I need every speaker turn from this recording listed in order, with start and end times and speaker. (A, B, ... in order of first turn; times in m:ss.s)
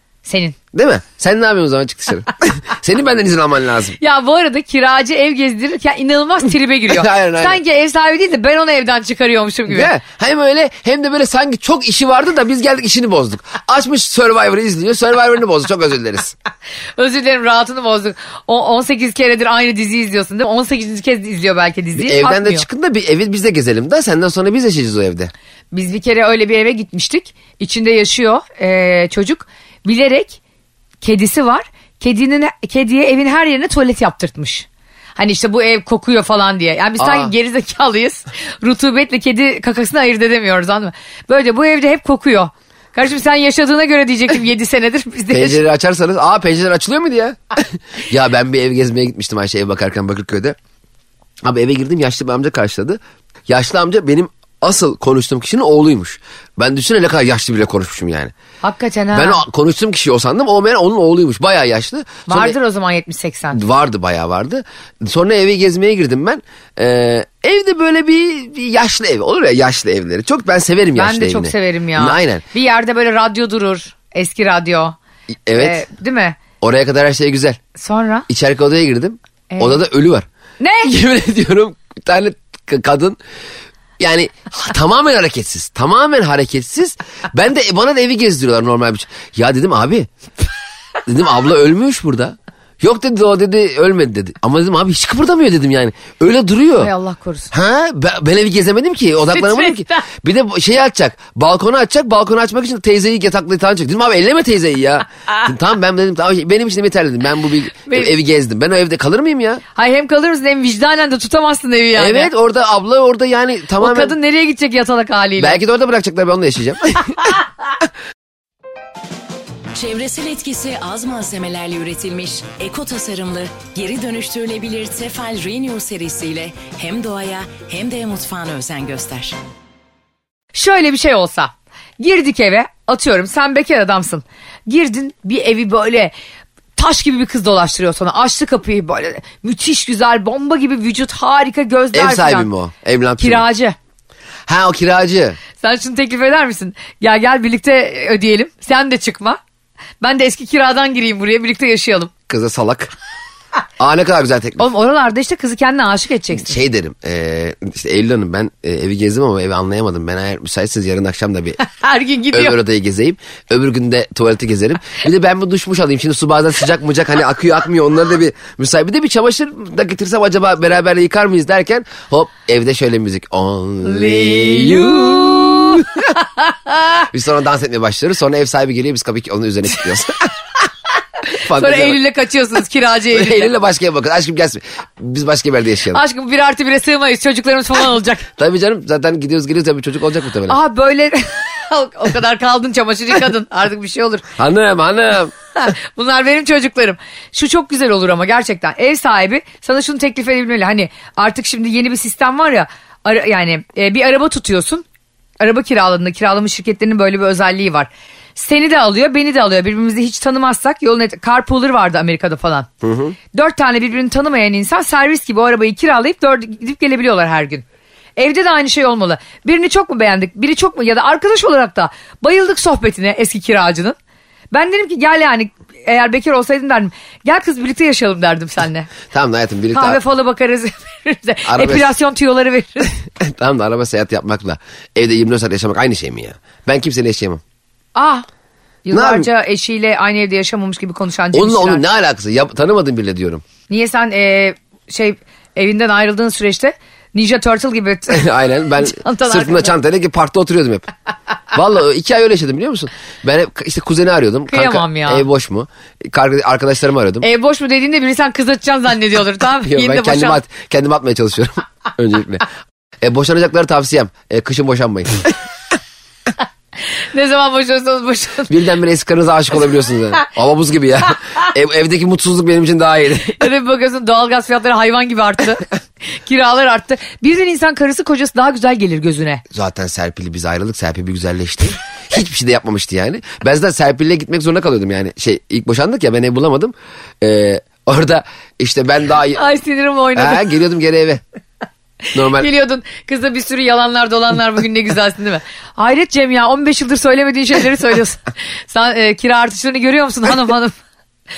0:00.2-0:00.6 A
0:00.7-0:04.0 B
0:04.0-0:09.9 A
0:06.9-0:07.6 B
0:09.7-0:16.4 B
0:17.0-0:22.6 A
0:22.0-0:25.3 B
0:25.7-0:30.4 A
0:31.0-0:45.6 A
0:37.0-0:37.3 B
0:45.3-0:50.6 B
0:51.4-0:58.3 B
0:58.6-0:59.4 A
0:59.1-1:02.6 B
1:02.3-1:03.6 A
1:03.5-1:12.4 B
1:11.0-1:15.0 A
1:15.5-1:15.8 B
1:15.5-1:16.4 A
1:16.6-1:17.6 B
1:17.8-1:18.2 A
1:18.3-1:20.2 B
1:19.5-1:19.8 A
1:20.6-1:20.9 A
1:20.8-1:23.2 B
1:24.0-1:30.1 B
1:31.1-1:36.9 B
1:36.8-1:37.5 A
1:37.5-1:49.6 B
1:39.4-1:40.0 A
1:47.9-1:48.1 A
1:49.8-1:52.3 A
1:52.0-1:54.2 B
1:53.8-1:55.6 A
1:55.4-1:57.3 B
1:59.7-2:09.4 C
2:10.5-2:16.1 A
2:16.8-2:22.5 A
2:21.9-2:23.4 B
2:23.2-2:23.8 A
2:24.5-2:25.4 B
2:25.6-2:29.4 A
2:30.0-2:32.1 A
2:32.3-2:32.9 B
2:33.8-2:34.6 B
2:34.6-2:36.6 A
2:36.4-2:41.6 B
2:41.6-2:42.6 A
2:42.3-2:56.1 B
2:53.8-2:57.0 A
2:57.1-3:00.3 B
3:01.4-3:03.5 A
3:01.4-3:02.0 B
3:03.1-3:06.0 B
3:05.9-3:08.3 A
3:08.4-3:10.6 B
3:10.5-3:14.2 A
3:14.4-3:15.3 B
3:15.6-3:24.8 A
3:25.4-3:32.7 A
3:32.8-3:33.1 B
3:33.3-3:37.6 A
3:38.2-3:44.0 A
3:44.5-3:48.9 A
3:49.1-3:50.0 B
3:49.7-3:53.0 A
3:51.4-3:51.9 B
3:53.2-3:57.4 B
3:58.0-3:58.2 A
3:58.8-4:01.8 A
3:58.9-3:59.3 B
4:01.3-4:03.4 B
4:03.7-4:08.2 A
4:08.1-4:10.9 B
4:08.8-4:09.7 A
4:11.5-4:17.2 B
4:14.5-4:15.2 A
4:17.2-4:20.4 A
4:19.6-4:22.5 B
4:23.0-4:25.3 B
4:26.8-4:28.5 A
4:28.5-4:33.4 B
4:33.4-4:39.4 A
4:39.5-4:49.4 B
4:49.3-4:50.6 A
4:50.1-4:51.2 B
4:52.1-4:52.5 B
4:52.2-5:00.8 A